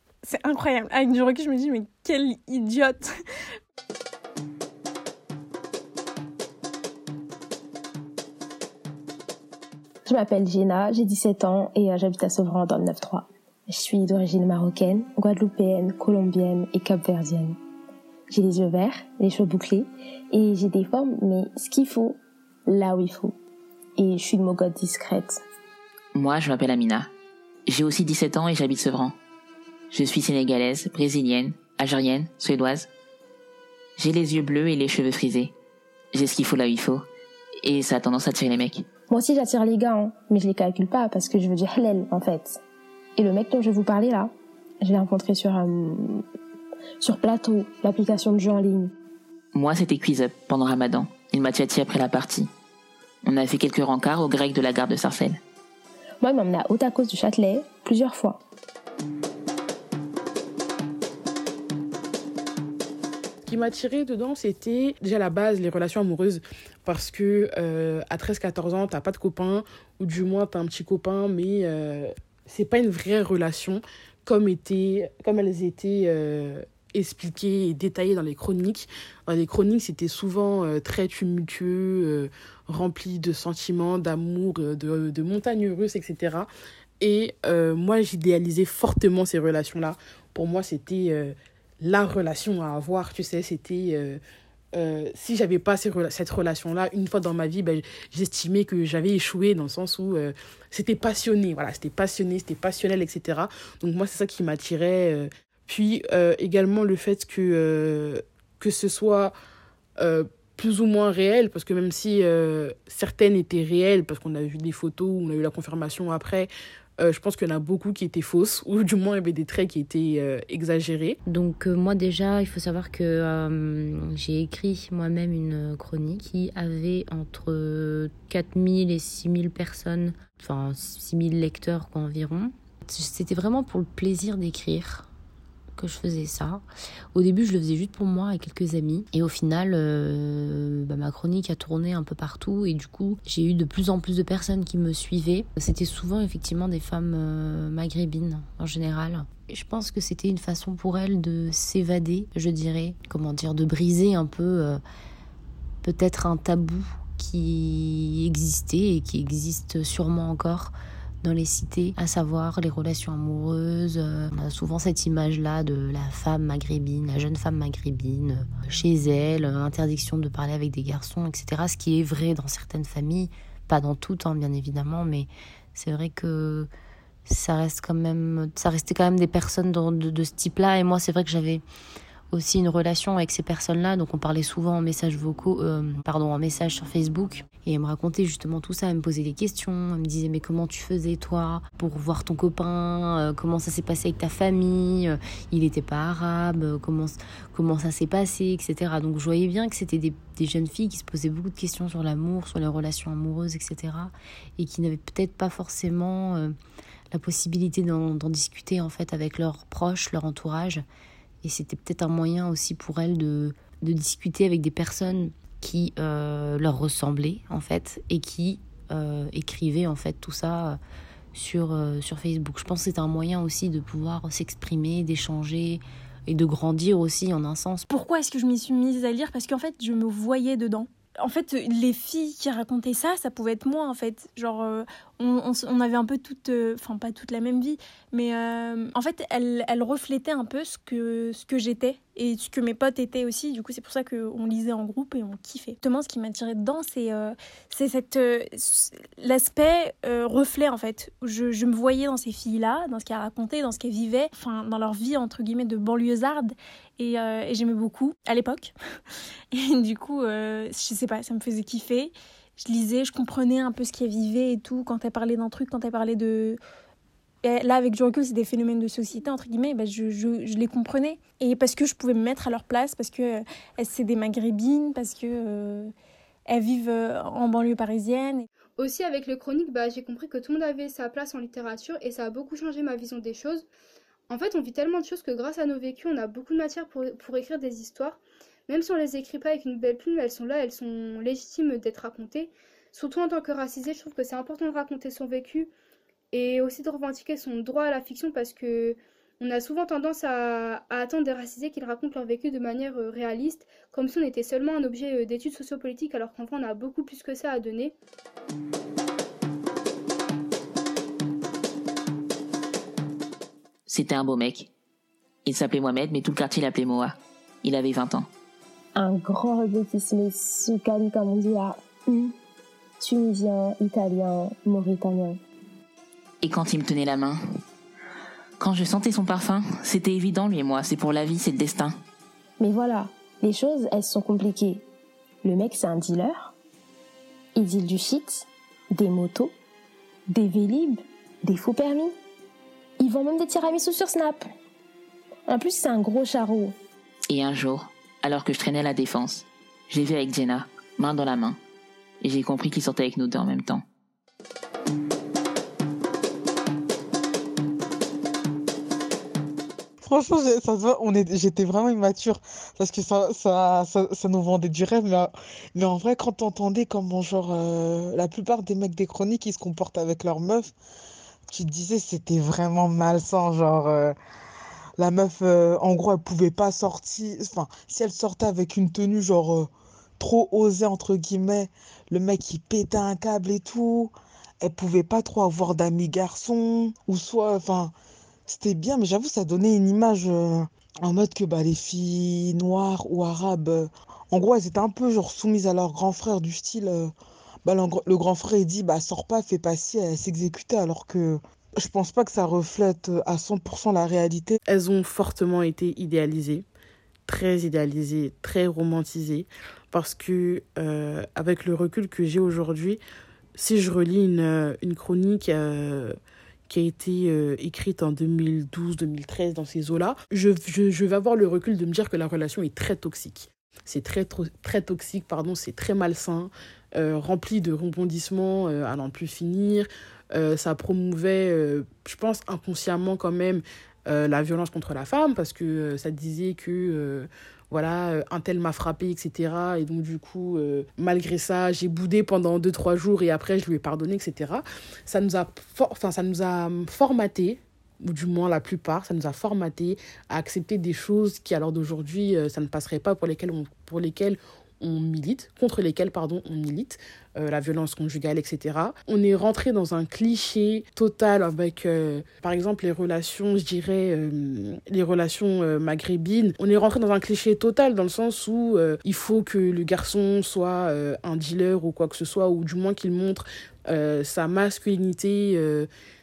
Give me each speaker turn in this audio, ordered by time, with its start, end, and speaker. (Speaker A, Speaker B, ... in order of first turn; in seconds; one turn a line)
Speaker A: 0.2-3.1
Speaker B: 10.1-17.6
Speaker B: 18.3-23.4
Speaker B: 24.0-25.4
Speaker C: 26.1-27.1
Speaker C: 27.7-29.2
Speaker C: 29.9-32.9
Speaker C: 34.0-35.5
Speaker C: 36.1-37.1
Speaker C: 37.6-38.9
Speaker B: 39.1-42.6
Speaker B: 43.2-46.2
Speaker B: 47.0-48.9
Speaker C: 49.5-52.5
Speaker C: 53.2-55.4
Speaker B: 56.2-58.4
Speaker D: 63.4-86.5
Speaker D: 87.0-94.2
Speaker D: 94.7-109.3
Speaker D: 110.0-121.2
Speaker E: 121.3-135.1
Speaker E: 135.8-154.8
Speaker E: 155.8-176.7
Speaker E: 177.3-181.6
Speaker E: 182.3-206.5
Speaker E: 207.1-210.8
Speaker E: 211.4-220.8
Speaker E: 221.3-227.9
Speaker A: 227.9-258.7
Speaker A: 259.5-266.6
Speaker A: 267.4-275.9
Speaker A: 276.5-278.5
Speaker F: 278.8-283.7
Speaker F: 284.3-295.7
Speaker F: 296.3-307.9
Speaker C: 313.9-314.7
Speaker C: 315.4-318.3
Speaker B: 319.0-322.4
Speaker B: 323.0-325.4
Speaker C: 326.4-327.6
Speaker C: 328.6-332.0
Speaker B: 332.6-334.9
Speaker B: 335.4-336.5
Speaker B: 337.6-339.5
Speaker B: 340.3-342.1
Speaker B: 343.0-344.5
Speaker B: 345.5-346.8
Speaker C: 347.3-351.6
Speaker C: 352.2-353.9
Speaker G: 360.0-370.7
Speaker G: 371.5-374.1
Speaker G: 375.0-387.9
Speaker G: 388.5-397.1
Speaker G: 397.6-404.6
Speaker D: 404.7-406.6
Speaker D: 407.3-413.0
Speaker D: 413.6-416.2
Speaker D: 416.7-475.9